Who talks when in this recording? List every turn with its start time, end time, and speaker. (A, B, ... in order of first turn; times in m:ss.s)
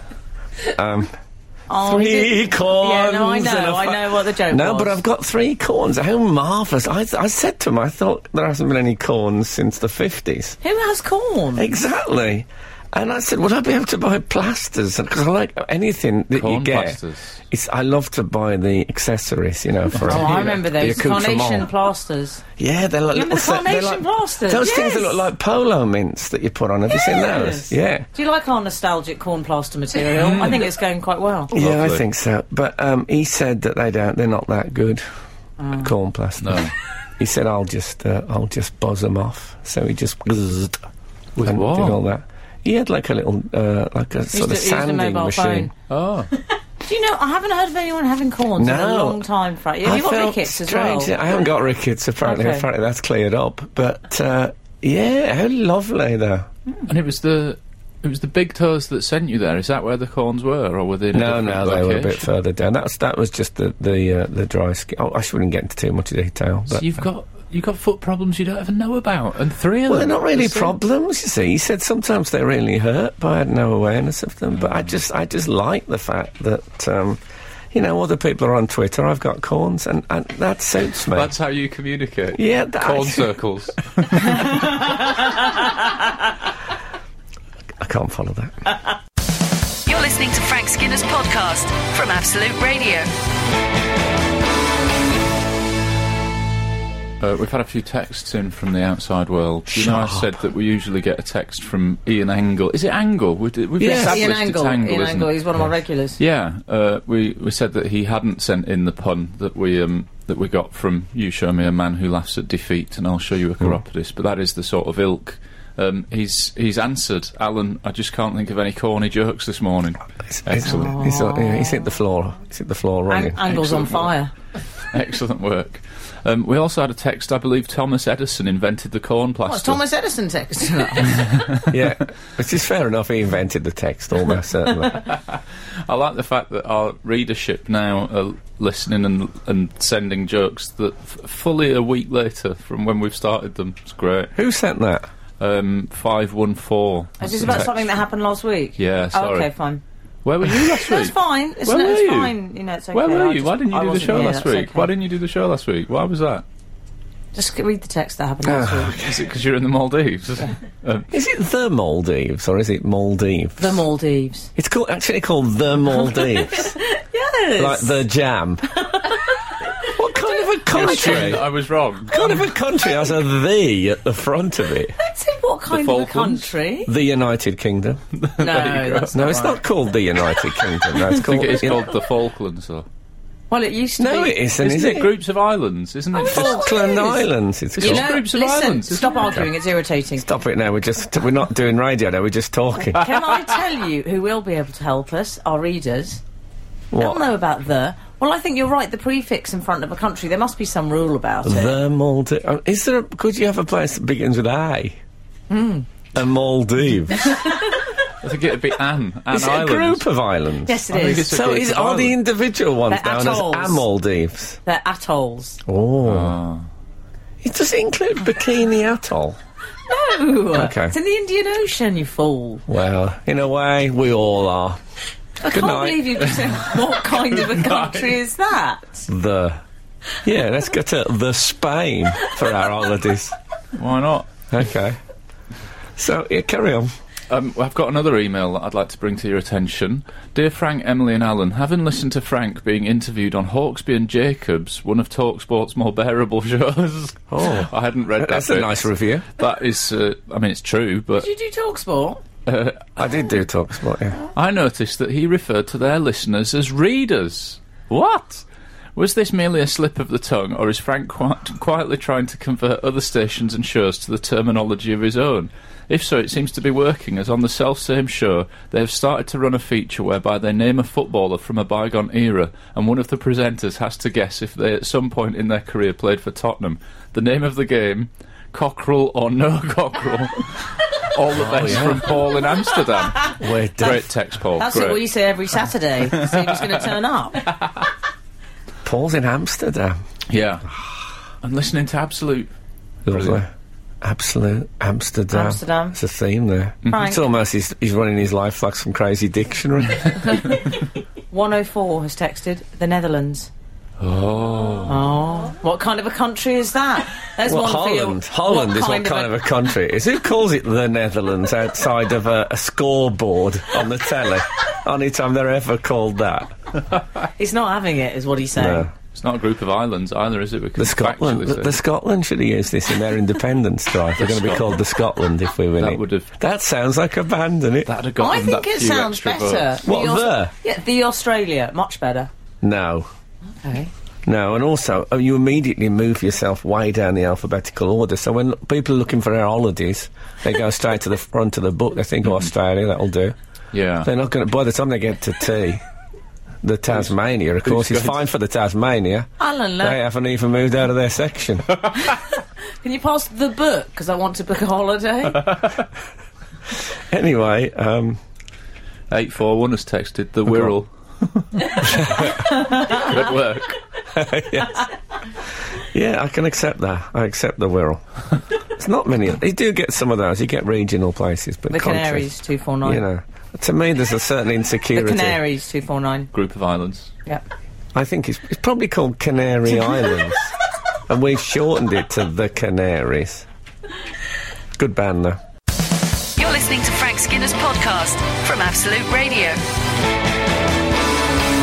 0:00.7-0:01.1 A
0:01.7-0:05.0 B
0:01.8-0:10.6 A
0:10.6-0:11.7 B
0:11.6-0:17.0 A
0:16.3-0:17.4 C
0:17.5-0:21.7 A
0:19.9-0:20.6 C
0:20.0-0:22.4 B
0:22.6-0:28.1 A
0:23.1-0:25.2 B
0:27.3-0:31.5 B
0:30.2-0:30.7 C
0:31.5-0:35.0 A
0:31.6-0:32.0 C
0:35.6-0:35.9 B
0:35.8-0:40.8 A
0:36.4-0:36.7 C
0:41.4-0:42.0 C
0:41.4-0:45.7 A
0:44.3-0:45.7 B
0:45.9-0:46.3 C
0:46.8-0:51.1 B
0:48.6-0:49.2 A
0:49.8-0:56.5 A
0:52.2-0:52.7 B
0:56.9-1:02.2 C
1:01.1-1:06.9 A
1:06.7-1:10.7 C
1:09.9-1:17.2 A
1:14.5-1:14.9 C
1:17.7-1:21.3 A
1:21.1-1:24.9 C
1:22.3-1:23.4 A
1:27.8-1:28.6 A
1:29.8-1:33.1 D
1:37.2-1:45.6 C
1:39.7-1:40.4 A
1:43.8-1:44.4 A
1:43.9-1:46.2 B
1:46.2-2:01.0 C
2:00.3-2:03.7 A
2:00.6-2:01.9 B
2:03.1-2:04.3 B
2:04.9-2:09.8 C
2:09.4-2:11.2 B
2:11.0-2:11.7 C
2:11.7-2:15.0 A
2:15.0-2:24.3 C
2:24.3-2:25.1 A
2:25.4-2:27.8 C
2:27.2-2:29.8 B
2:28.8-2:29.5 C
2:30.2-2:32.3 C
2:30.6-2:34.9 B
2:32.9-2:36.4 C
2:37.3-2:39.0 B
2:38.4-2:39.2 A
2:38.9-2:41.1 C
2:41.1-2:43.8 A
2:43.6-2:44.5 B
2:44.6-2:46.8 A
2:46.1-2:48.0 B
2:47.6-2:48.7 A
2:48.9-2:49.2 B
2:49.8-2:51.5 A
2:50.7-2:52.4 C
2:50.8-2:51.3 B
2:52.1-2:54.9 A
2:55.0-2:56.9 B
2:55.7-2:56.5 C
2:56.8-2:58.0 A
2:58.1-2:59.2 C
2:58.4-2:59.6 B
2:59.1-3:01.9 A
3:01.0-3:02.8 C
3:03.5-3:04.4 B
3:04.0-3:05.1 A
3:04.6-3:06.7 C
3:06.2-3:10.3 B
3:06.2-3:08.1 A
3:07.8-3:09.4 C
3:10.2-3:13.1 A
3:12.9-3:16.2 B
3:16.9-3:17.2 A
3:17.0-3:21.8 B
3:21.4-3:25.0 A
3:25.5-3:25.9 B
3:26.1-3:27.4 A
3:28.2-3:30.0 C
3:29.3-3:34.6 A
3:30.6-3:31.4 B
3:30.9-3:32.2 C
3:32.9-3:33.8 B
3:34.6-3:35.6 B
3:35.6-3:36.4 A
3:36.0-3:36.6 C
3:37.4-3:39.4 A
3:39.9-3:42.6 B
3:40.5-3:41.0 A
3:42.7-3:44.8 A
3:45.4-3:49.1 B
3:45.5-3:46.2 A
3:47.2-3:48.1 C
3:49.1-3:49.6 A
3:50.2-3:53.3 A
3:53.8-3:54.3 C
3:54.5-3:55.0 A
3:56.0-3:56.9 A
3:57.3-4:11.3 C
4:07.3-4:09.2 A
4:11.2-4:12.2 B
4:12.4-4:13.0 C
4:13.0-4:14.2 A
4:14.3-4:18.4 C
4:19.0-4:45.0 C
4:41.3-4:42.1 A
4:43.3-4:44.1 A
4:44.6-4:47.4 B
4:46.1-4:46.8 C
4:48.8-4:50.0 A
4:50.3-4:50.7 C
4:51.4-4:52.5 C
4:53.0-4:53.5 A
4:53.1-4:53.4 C
4:54.0-5:00.4 A
4:55.3-4:56.0 B
4:56.9-4:57.2 B
5:00.3-5:00.6 B
5:01.3-5:03.5 B
5:04.0-5:05.0 C
5:04.8-5:09.4 B
5:07.4-5:16.6 A
5:17.4-5:18.9 B
5:18.6-5:18.9 A
5:19.1-5:21.8 C
5:20.8-5:27.9 A
5:24.2-5:24.8 C
5:25.8-5:26.3 C
5:27.8-5:29.8 C
5:28.2-5:32.3 B
5:29.8-5:30.5 A
5:32.6-5:33.1 A
5:33.6-5:33.9 B
5:34.2-5:43.4 A
5:43.7-5:44.1 C
5:44.0-5:45.8 A
5:46.6-5:51.7 A
5:47.6-5:48.2 C
5:49.4-5:50.0 B
5:52.8-5:55.5 B
5:57.1-5:58.2 A
5:59.1-6:03.8 C
6:00.5-6:00.7 A
6:01.8-6:02.5 A
6:04.1-6:04.9 A
6:05.7-6:08.0 A
6:08.6-6:15.4 A
6:11.7-6:13.0 B
6:14.9-6:16.3 B
6:16.3-6:17.1 C
6:17.9-6:20.5 A
6:21.1-6:23.4 A
6:24.8-6:25.4 A
6:26.4-6:29.6 D